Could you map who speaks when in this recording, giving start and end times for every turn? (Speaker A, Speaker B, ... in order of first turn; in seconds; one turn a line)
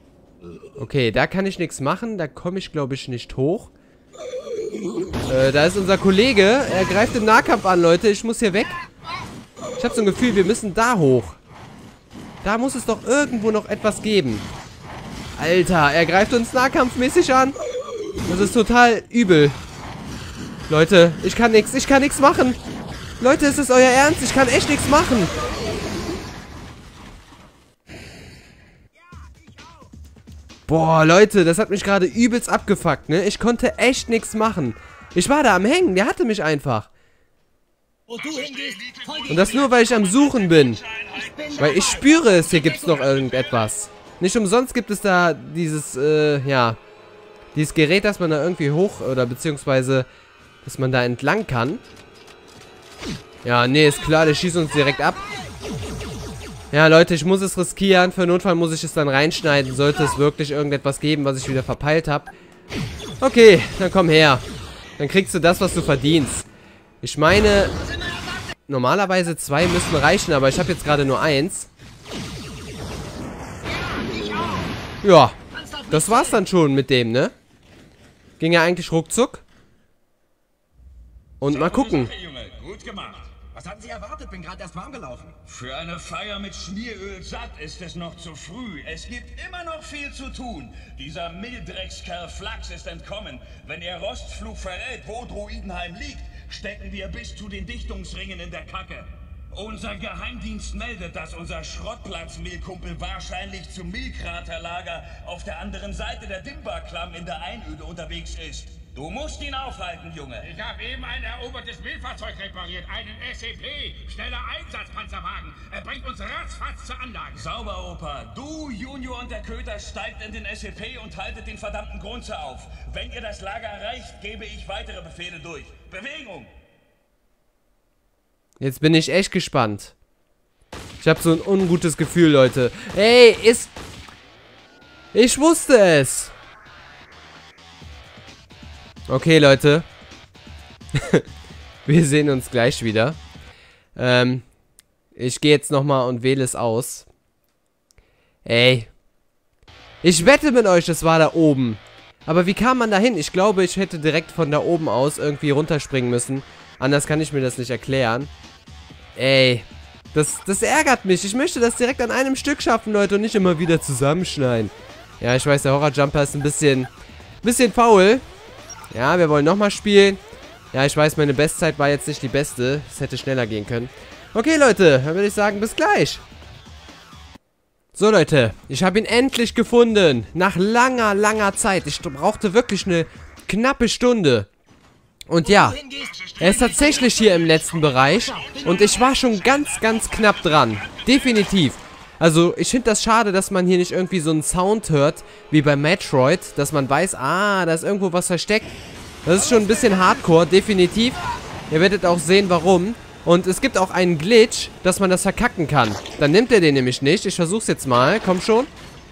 Speaker A: 0.8-3.7
Speaker A: 5.3-8.8
Speaker A: 9.8-11.4
Speaker A: 12.4-14.4
Speaker A: 15.4-17.6
Speaker A: 18.3-19.6
Speaker A: 20.7-22.6
Speaker A: 23.2-25.3
Speaker B: 29.2-29.8
Speaker A: 30.7-36.9
Speaker B: 38.1-39.7
Speaker C: 38.1-43.7
Speaker A: 39.3-40.8
Speaker B: 41.1-42.2
Speaker A: 41.6-46.8
Speaker A: 47.5-50.1
Speaker A: 50.6-51.8
Speaker A: 53.4-55.2
Speaker A: 56.7-62.3
Speaker A: 63.2-64.4
Speaker A: 65.0-66.5
Speaker A: 67.0-67.7
Speaker B: 68.0-68.4
Speaker A: 68.7-71.7
Speaker B: 73.9-74.7
Speaker A: 75.0-75.4
Speaker B: 75.5-76.4
Speaker A: 75.9-77.3
Speaker A: 78.4-79.4
Speaker A: 81.4-82.1
Speaker C: 81.4-83.3
Speaker B: 83.5-85.4
Speaker C: 85.5-110.5
Speaker D: 110.4-117.5
Speaker C: 117.3-126.5
Speaker A: 128.6-129.9
Speaker A: 131.0-133.7
Speaker A: 135.1-136.3
Speaker A: 139.1-139.8
Speaker A: 140.9-141.2
Speaker A: 141.8-143.2
Speaker A: 143.9-144.4
Speaker A: 145.1-147.1
Speaker A: 148.4-148.9
Speaker A: 150.0-158.3
Speaker A: 159.2-166.9
Speaker A: 167.4-168.2
Speaker A: 168.9-170.2
Speaker A: 170.7-176.2
Speaker A: 177.9-184.5
Speaker A: 185.3-185.8
Speaker B: 185.4-187.0
Speaker C: 185.9-191.6
Speaker A: 186.4-201.2
Speaker B: 188.0-189.0
Speaker A: 201.7-208.7